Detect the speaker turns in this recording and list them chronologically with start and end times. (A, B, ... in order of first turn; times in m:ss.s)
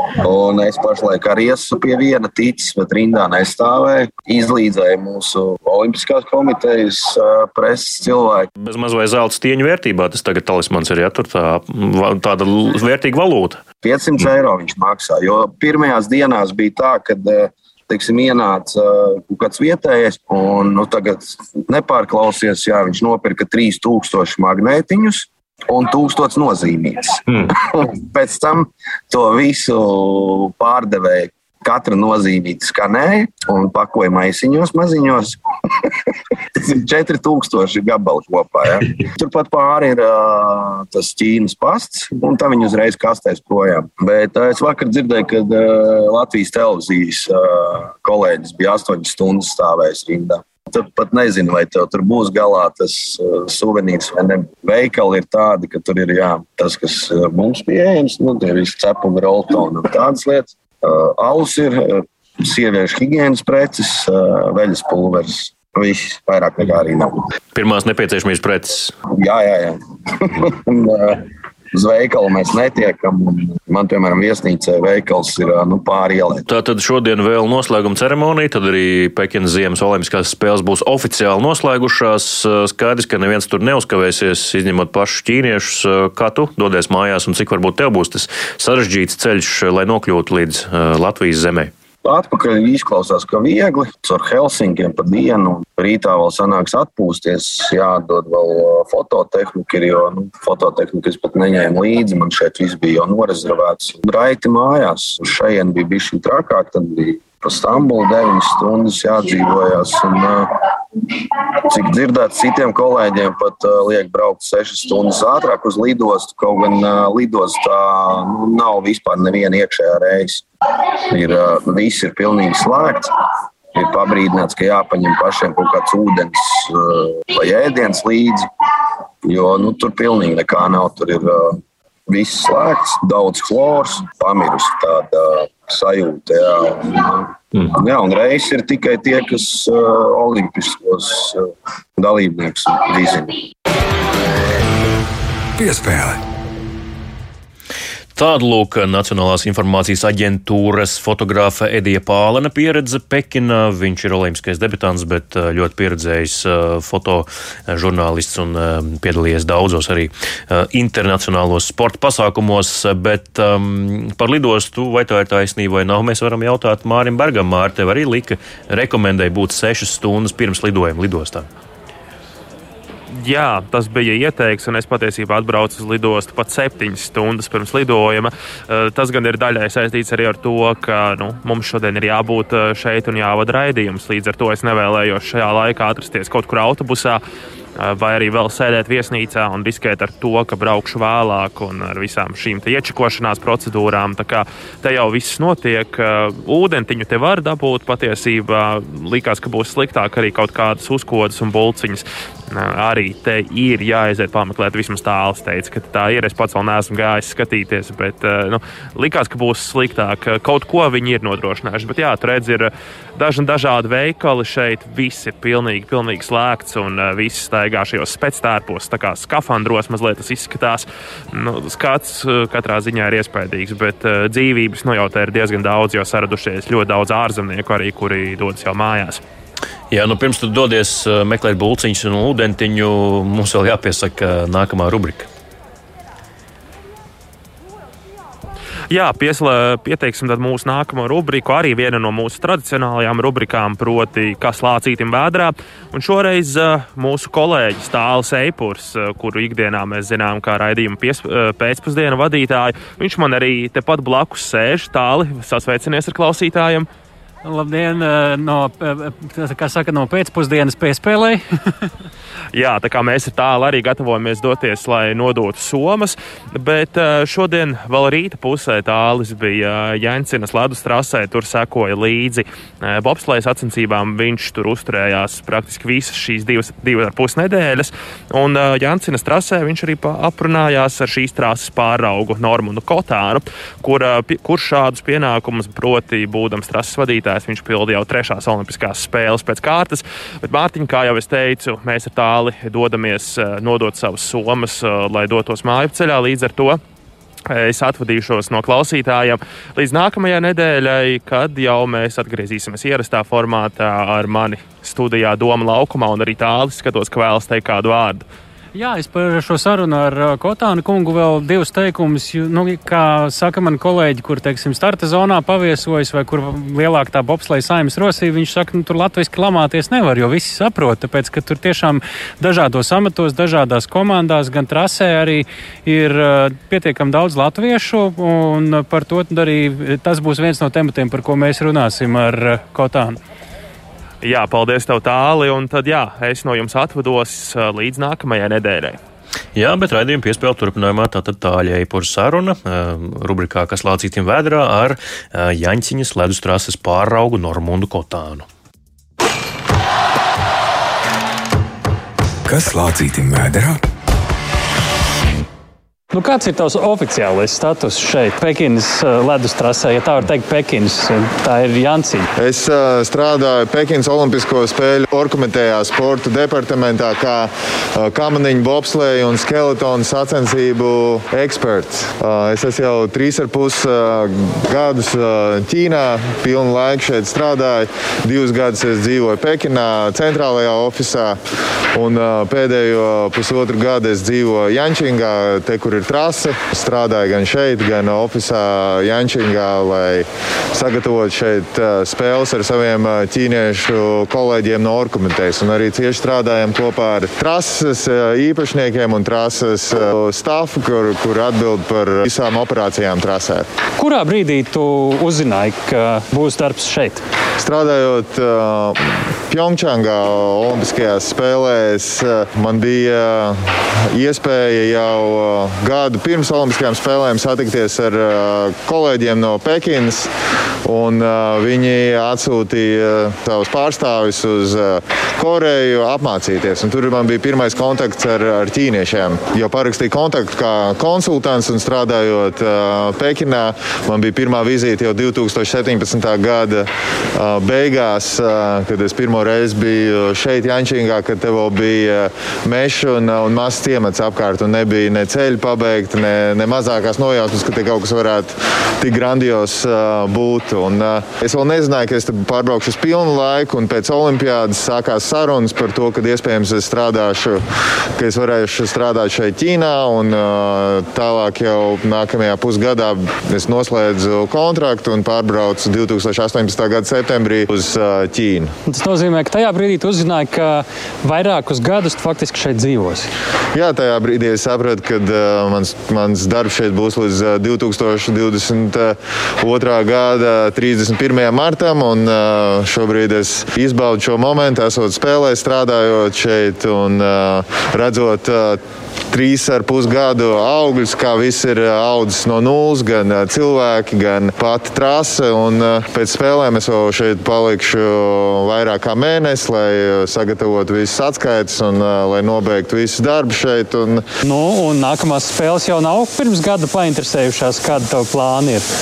0:00.2-0:08.5 A
0:08.6-0:13.6 B
0:13.8-1:07.3 A
1:07.5-1:08.9 B
1:09.1-1:16.5 A
1:16.5-1:31.7 B
1:32.0-1:50.5 A
1:51.7-2:00.4 A
2:01.1-2:03.1 A
2:03.7-2:08.5 A
2:09.2-2:23.4 A
2:25.6-2:26.2 C
2:28.2-2:51.5 B
2:53.1-3:07.2 D
3:07.8-3:49.2 D
3:49.9-3:55.3 B
3:58.9-4:16.9 D
4:17.4-4:21.4 E
4:22.5-4:56.8 D
4:57.5-5:08.3 D
5:08.8-5:33.2 E
5:34.2-5:39.0 D
5:39.6-5:48.5 B
5:52.5-5:53.8 C
5:56.1-6:02.3 E
6:02.4-6:21.4 F
6:22.0-6:43.7 F
6:44.0-6:47.2 E
6:47.6-7:00.3 F
7:00.8-7:37.6 F
7:38.2-7:48.7 F
7:48.9-7:53.3 E
7:53.7-8:24.2 F
8:24.4-8:28.9 E